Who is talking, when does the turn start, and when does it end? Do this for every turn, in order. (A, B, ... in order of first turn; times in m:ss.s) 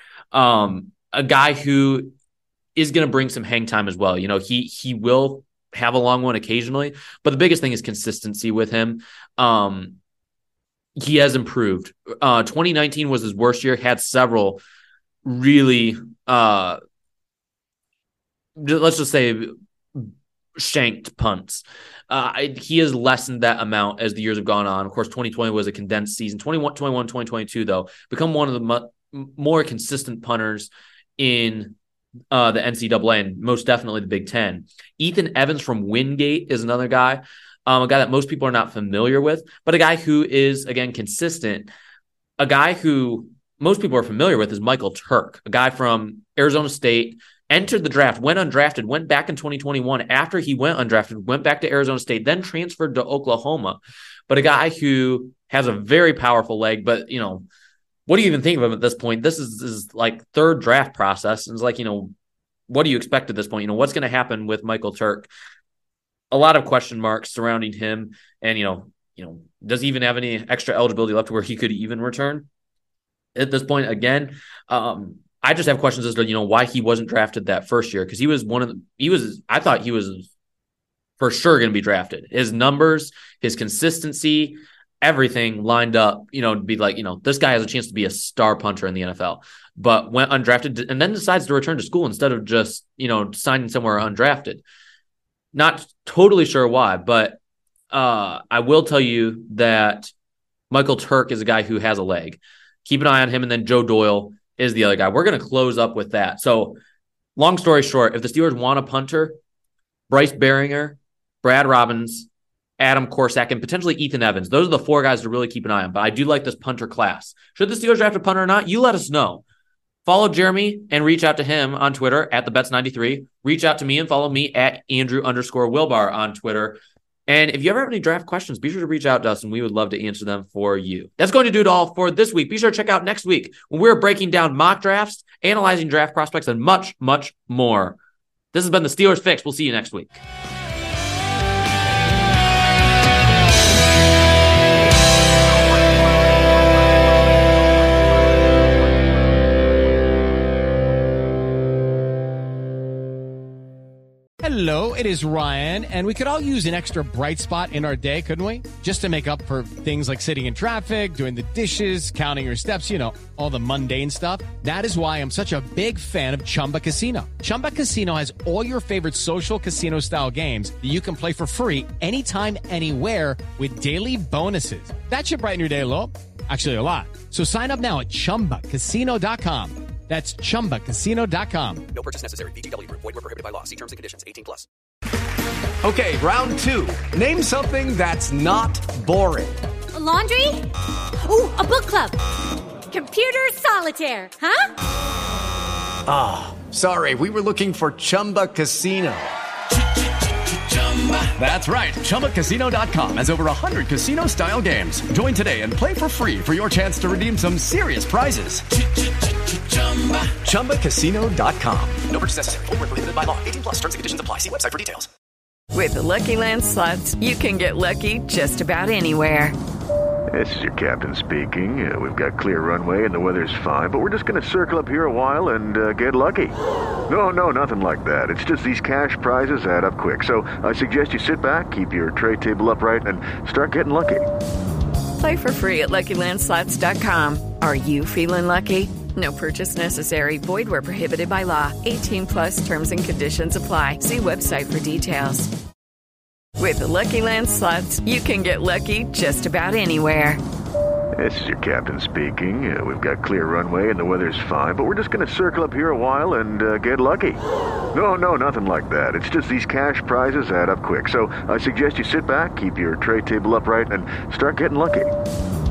0:00.3-0:02.1 A
0:02.8-0:10.0 A
0:11.0-0:14.6 A
0:15.2-0:16.8 A
0:18.6-0:31.8 A
0:32.3-0:41.7 A
0:42.4-0:57.4 A
0:58.1-1:02.1 A
1:02.7-1:05.3 A
1:06.3-1:12.5 A
1:13.3-1:20.3 A
1:21.2-1:34.6 A
1:35.5-1:37.4 A
1:37.9-1:40.1 A
1:40.7-1:46.8 A
1:47.4-1:49.4 A
1:50.1-1:52.3 A
1:52.8-1:59.4 A
2:00.0-2:18.0 A
2:18.5-2:20.2 A
2:34.4-3:01.8 B
3:01.9-3:04.7 C
3:05.8-3:09.6 D
3:09.9-3:10.6 E
3:11.2-3:12.2 E
3:12.9-3:14.7 E
3:16.0-3:19.3 D
3:21.2-3:28.6 D
3:30.3-3:32.0 D
3:32.1-3:35.1 C
3:35.7-3:39.5 F
3:40.3-3:46.5 G
3:47.1-3:54.2 G
3:55.2-4:05.5 F
4:06.6-4:10.4 F
4:11.2-4:17.4 G
4:17.9-4:25.1 G